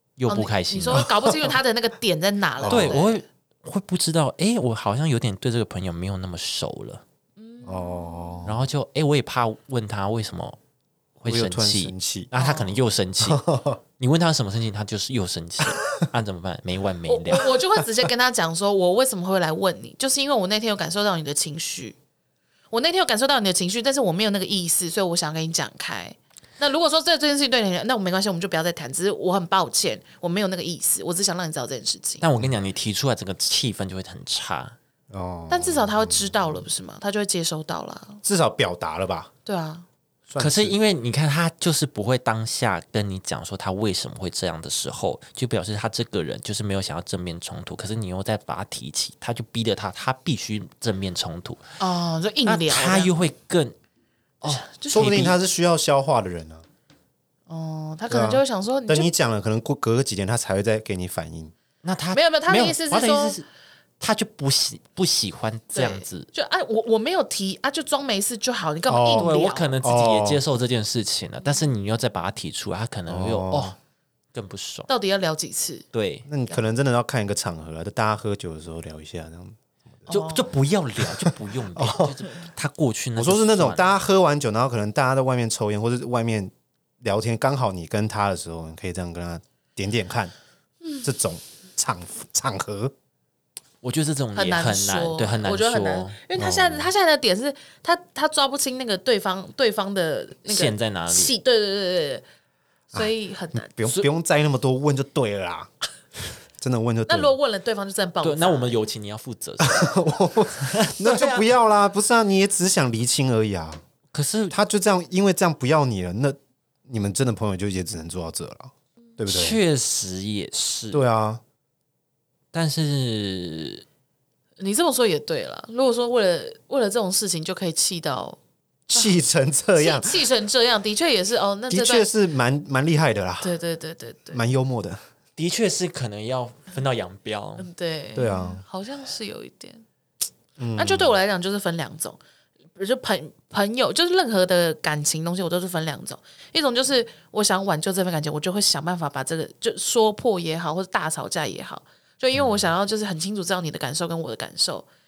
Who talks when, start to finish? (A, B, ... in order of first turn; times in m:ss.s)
0:00.2-0:01.1 A
0:00.3-0:03.2 B
0:00.9-0:01.5 C
0:02.6-0:03.0 C
0:02.6-0:07.0 A
0:07.4-0:08.5 B
0:07.6-0:08.7 C
0:08.4-0:10.6 A
0:11.2-0:13.4 A
0:11.2-0:12.3 C
0:12.4-0:12.8 B
0:13.2-0:13.8 C
0:14.0-0:17.5 A
0:17.1-0:22.0 B
0:22.7-0:32.2 B
0:32.2-0:34.8 A
0:35.1-0:36.6 C
0:35.5-0:38.2 B
0:38.2-0:39.3 C
0:39.4-0:39.8 B
0:40.3-0:40.8 C
0:40.4-0:51.6 A
0:51.8-0:53.1 B
0:52.4-0:53.7 A
0:54.4-0:55.4 A
0:54.4-0:55.3 B
0:54.9-0:56.6 C
0:57.5-0:59.1 B
0:58.1-1:01.5 C
1:01.8-1:03.5 A
1:02.1-1:03.4 B
1:04.0-1:06.3 A
1:05.7-1:09.7 B
1:08.9-1:10.4 C
1:09.1-1:13.8 A
1:13.1-1:13.7 C
1:14.3-1:14.9 A
1:14.9-1:15.8 B
1:15.9-1:16.3 A
1:16.3-1:20.1 C
1:20.1-1:20.5 B
1:20.1-1:24.0 A
1:21.0-1:22.2 C
1:23.2-1:30.3 C
1:31.0-1:32.9 C
1:33.8-1:36.2 A
1:34.3-1:42.2 B
1:36.4-1:36.9 C
1:40.4-1:41.3 A
1:42.9-1:43.8 B
1:43.0-1:45.7 C
1:46.6-1:47.4 C
1:47.1-1:48.8 B
1:48.2-1:49.9 A
1:49.6-1:53.8 C
1:50.6-1:51.5 A
1:54.1-1:54.6 A
1:54.5-1:59.6 C
1:59.3-2:01.0 A
2:00.9-2:01.4 C
2:02.5-2:03.8 A
2:04.6-2:08.4 B
2:08.9-2:10.2 C
2:09.8-2:12.1 B
2:11.7-2:13.5 C
2:13.4-2:14.4 B
2:14.3-2:15.0 C
2:15.4-2:17.7 A
2:17.6-2:19.8 B
2:18.1-2:18.6 C
2:20.6-2:21.2 C
2:20.8-2:22.2 B
2:22.8-2:34.9 B
2:32.3-2:32.7 A